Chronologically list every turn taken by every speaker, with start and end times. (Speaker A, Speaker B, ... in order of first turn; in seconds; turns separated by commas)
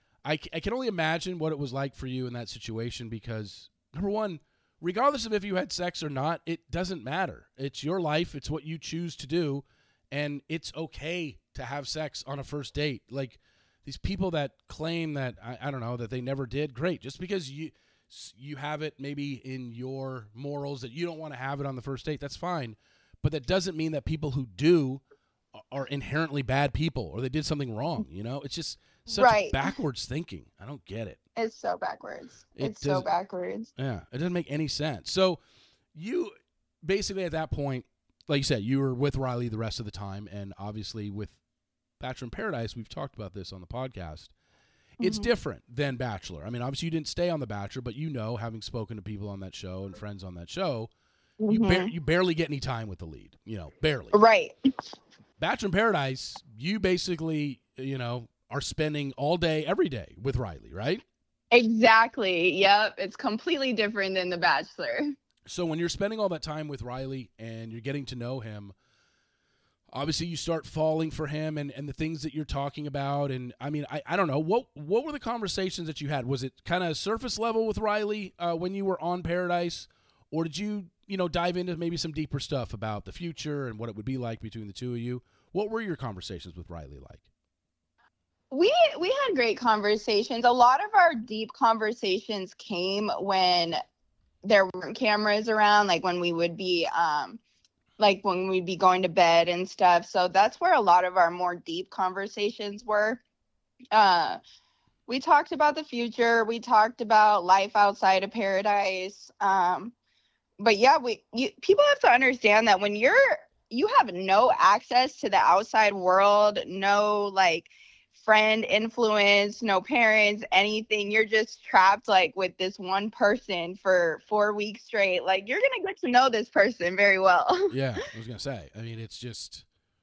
Speaker A: 0.2-25.0, Speaker A: 25.6-31.2, Speaker B: 29.1-29.7, Speaker B: 31.4-33.7, Speaker A: 32.6-33.1, Speaker A: 33.8-35.4, Speaker A: 35.9-41.4, Speaker A: 42.0-44.3, Speaker B: 45.0-45.3, Speaker A: 45.0-50.9, Speaker B: 51.4-51.9, Speaker A: 51.5-54.2, Speaker B: 54.1-54.5, Speaker A: 55.4-61.0, Speaker B: 61.5-65.1, Speaker A: 65.5-68.7, Speaker A: 69.9-87.2, Speaker B: 88.5-93.8, Speaker B: 94.4-97.4, Speaker B: 98.0-103.2, Speaker B: 103.9-104.4, Speaker B: 105.1-109.9, Speaker B: 110.6-127.8, Speaker A: 127.7-129.7